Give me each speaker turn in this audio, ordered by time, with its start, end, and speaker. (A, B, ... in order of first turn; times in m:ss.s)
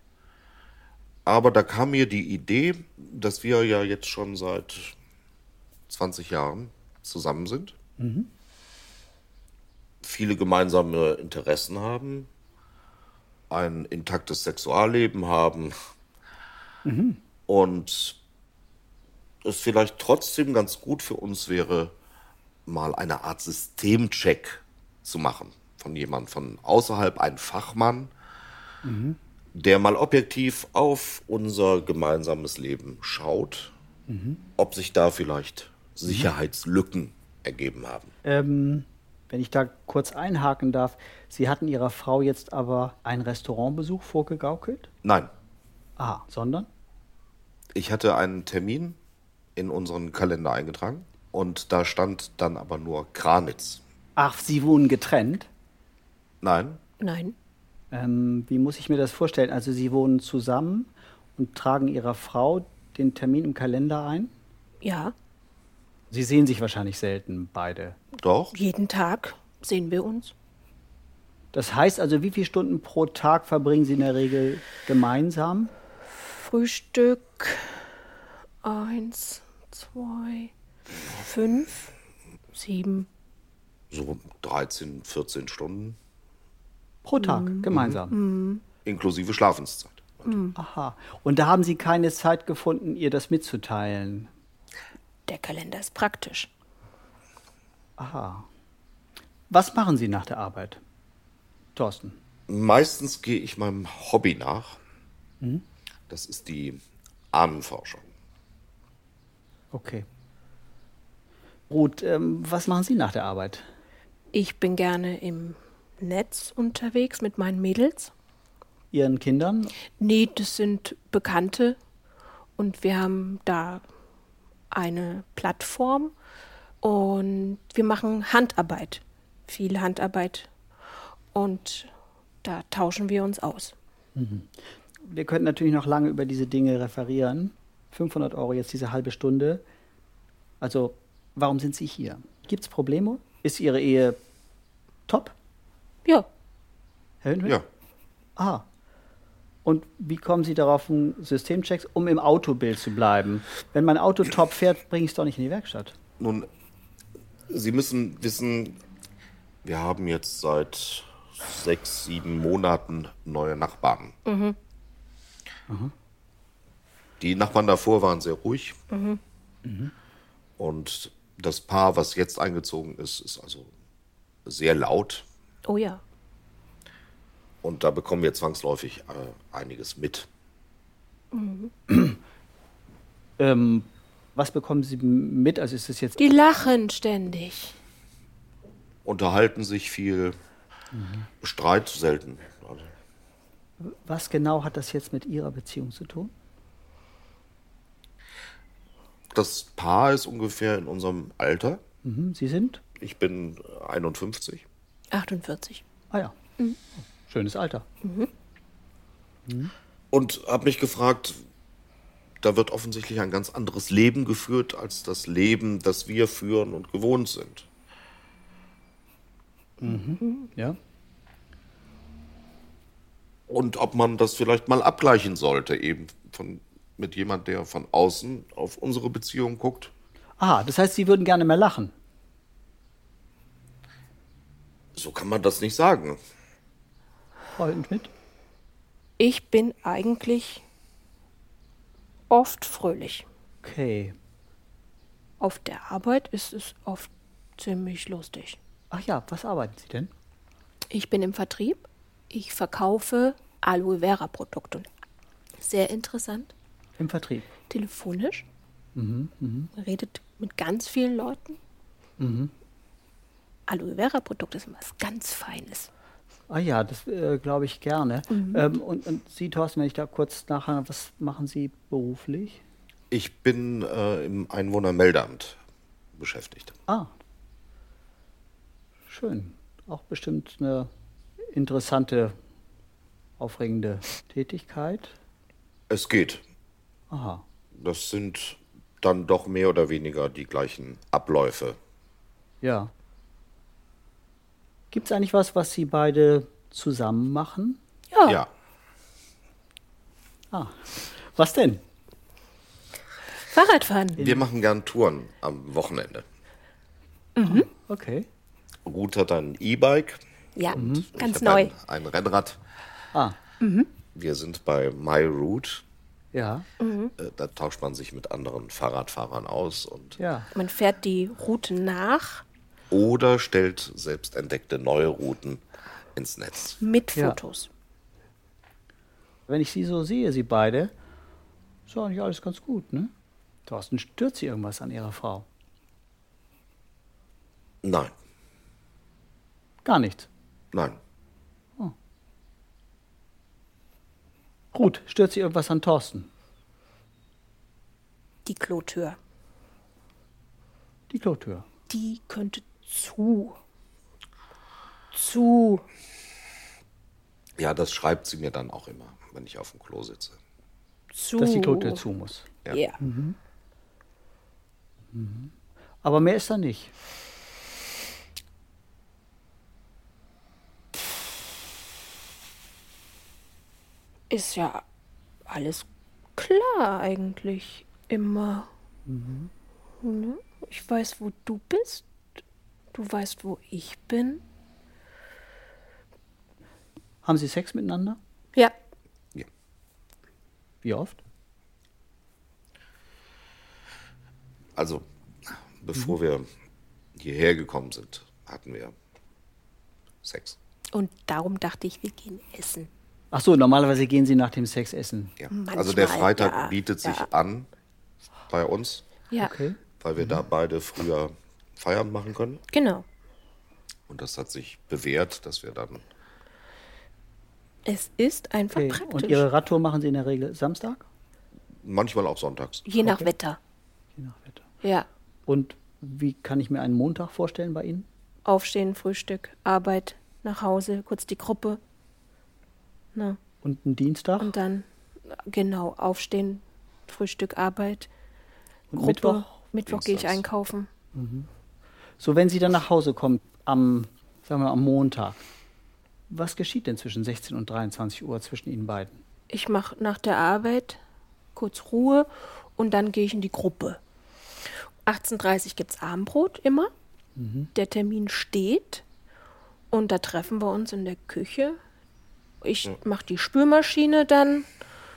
0:01.2-0:04.9 A
0:05.9-0:07.7 A
0:08.0-0:08.3 B
0:10.0-0:12.3 A
0:13.5-0:15.8 A
0:16.8-0:17.2 B
0:17.5-0:18.2 A
0:19.4-0:21.9 A
0:22.6-0:28.1 A
0:28.8-0:29.2 B
0:29.5-0:33.7 A
0:34.1-0:34.4 B
0:34.6-0:38.1 A
0:38.2-0:44.9 B
0:45.0-0:45.3 A
0:46.0-0:46.7 B
0:47.7-0:49.0 A
0:49.6-0:53.8 A
0:54.2-0:55.5 B
0:56.4-0:56.8 A
0:57.0-0:57.3 C
0:57.9-1:04.3 B
1:04.8-1:05.1 C
1:06.1-1:08.0 B
1:08.2-1:08.5 A
1:08.5-1:10.3 C
1:11.5-1:15.7 B
1:16.1-1:17.9 C
1:18.6-1:20.5 C
1:21.0-1:21.9 C
1:22.5-1:23.1 C
1:23.9-1:26.0 A
1:27.0-1:28.2 B
1:27.2-1:28.6 C
1:27.7-1:27.9 A
1:28.8-1:30.3 A
1:30.2-1:30.6 C
1:30.5-1:34.3 B
1:35.3-1:36.5 C
1:38.0-1:38.4 B
1:39.5-1:40.8 B
1:41.7-1:42.2 B
1:42.5-1:44.8 A
1:46.1-1:46.8 A
1:47.3-1:48.1 A
1:49.7-1:50.0 B
1:51.7-1:53.6 B
1:54.3-1:58.1 C
1:58.9-1:59.7 B
2:00.0-2:01.8 C
2:02.6-2:03.8 C
2:04.7-2:06.1 C
2:06.8-2:10.5 C
2:11.3-2:11.9 C
2:12.4-2:13.7 C
2:14.1-2:19.6 B
2:20.6-2:24.2 B
2:25.1-2:25.3 B
2:27.2-2:27.6 B
2:28.4-2:28.6 B
2:29.6-2:35.9 B
2:36.2-2:36.5 A
2:37.5-2:38.8 A
2:39.6-2:44.2 A
2:44.2-2:44.6 C
2:47.2-2:48.8 A
2:48.9-2:49.2 C
2:49.6-2:49.9 B
2:50.6-2:53.7 A
2:54.4-2:55.2 A
2:55.6-2:56.0 C
2:57.6-3:00.3 A
3:01.3-3:01.7 C
3:03.4-3:06.2 B
3:06.2-3:07.8 C
3:09.0-3:10.4 A
3:10.9-3:11.3 B
3:11.4-3:12.9 A
3:13.8-3:16.3 B
3:19.3-3:21.8 A
3:22.0-3:22.8 B
3:23.0-3:24.6 A
3:25.1-3:25.8 C
3:27.0-3:27.8 B
3:28.0-3:28.3 C
3:29.5-3:29.7 B
3:30.1-3:31.4 A
3:32.4-3:37.7 A
3:39.8-3:40.8 B
3:43.5-3:49.9 A
3:50.4-3:51.9 B
3:54.9-3:56.2 A
3:57.5-3:58.1 B
3:59.2-4:00.6 C
4:02.3-4:03.2 C
4:03.6-4:04.1 B
4:05.4-4:08.6 C
4:08.9-4:10.1 B
4:10.9-4:14.9 C
4:15.6-4:16.5 C
4:17.0-4:17.5 B
4:17.7-4:18.4 C
4:18.9-4:19.7 B
4:19.7-4:21.6 C
4:22.2-4:22.5 B
4:23.7-4:25.9 C
4:26.5-4:32.6 B
4:28.3-4:28.6 C
4:33.1-4:35.6 A
4:36.2-4:36.7 A
4:36.9-4:37.1 B
4:39.1-4:40.9 B
4:41.5-4:42.3 B
4:43.4-4:45.1 B
4:45.9-4:46.4 A
4:47.1-4:47.4 B
4:47.7-4:51.8 A
4:52.6-4:52.9 B
4:54.9-4:57.8 B
4:58.1-4:58.4 C
5:00.5-5:01.8 B
5:03.5-5:04.2 C
5:04.2-5:06.2 A
5:04.2-5:04.5 B
5:07.4-5:07.7 C
5:07.4-5:08.3 B
5:08.8-5:12.6 A
5:10.6-5:11.7 C
5:10.7-5:11.1 B
5:13.6-5:13.9 C
5:14.1-5:15.8 A
5:16.3-5:16.6 B
5:16.8-5:17.1 C
5:17.2-5:20.2 A
5:20.2-5:20.5 B
5:20.5-5:22.4 C
5:22.9-5:25.6 A
5:26.1-5:26.8 A
5:26.8-5:27.7 C
5:29.5-5:30.9 B
5:31.9-5:33.1 B
5:33.6-5:35.4 B
5:37.8-5:38.1 A
5:39.8-5:40.3 B
5:40.7-5:41.0 A
5:44.7-5:46.3 B
5:48.4-5:49.2 C
5:51.1-5:51.6 B
5:51.9-5:53.6 C
5:55.1-5:55.8 C
5:57.6-6:00.4 A
6:01.1-6:02.0 C
6:01.4-6:02.5 B
6:02.7-6:03.0 C
6:03.0-6:03.4 B
6:05.1-6:05.5 B
6:06.0-6:06.9 B
6:14.3-6:14.8 C
6:15.5-6:15.8 C
6:16.4-6:18.7 C
6:19.1-6:19.5 B
6:20.0-6:22.0 C
6:22.9-6:24.4 C
6:27.2-6:28.2 B
6:30.8-6:31.2 B
6:34.8-6:35.0 A
6:35.8-6:36.4 A
6:37.2-6:38.9 A
6:40.2-6:40.6 A
6:40.9-6:42.9 C
6:43.3-6:45.3 B
6:45.4-6:47.7 A
6:45.5-6:47.3 C
6:48.5-6:49.0 A
6:49.4-6:50.4 B
6:50.0-6:52.6 A
6:52.7-6:53.0 C
6:54.1-6:56.0 A
6:57.8-6:59.4 C
6:58.7-7:01.0 B
7:01.8-7:02.9 A
7:02.8-7:03.6 C
7:03.0-7:03.3 B
7:04.2-7:04.6 B
7:04.8-7:05.1 C
7:05.5-7:08.1 B
7:08.4-7:11.8 C
7:13.6-7:14.5 B
7:14.4-7:18.1 C
7:18.9-7:19.5 B
7:18.9-7:20.9 C
7:19.9-7:20.4 A
7:21.1-7:21.5 B
7:22.2-7:25.4 B
7:26.3-7:29.2 B
7:29.5-7:31.0 C
7:31.6-7:34.0 C
7:35.0-7:36.9 C
7:37.4-7:37.7 B
7:37.7-7:39.0 C
7:39.9-7:41.8 C
7:42.6-7:44.7 C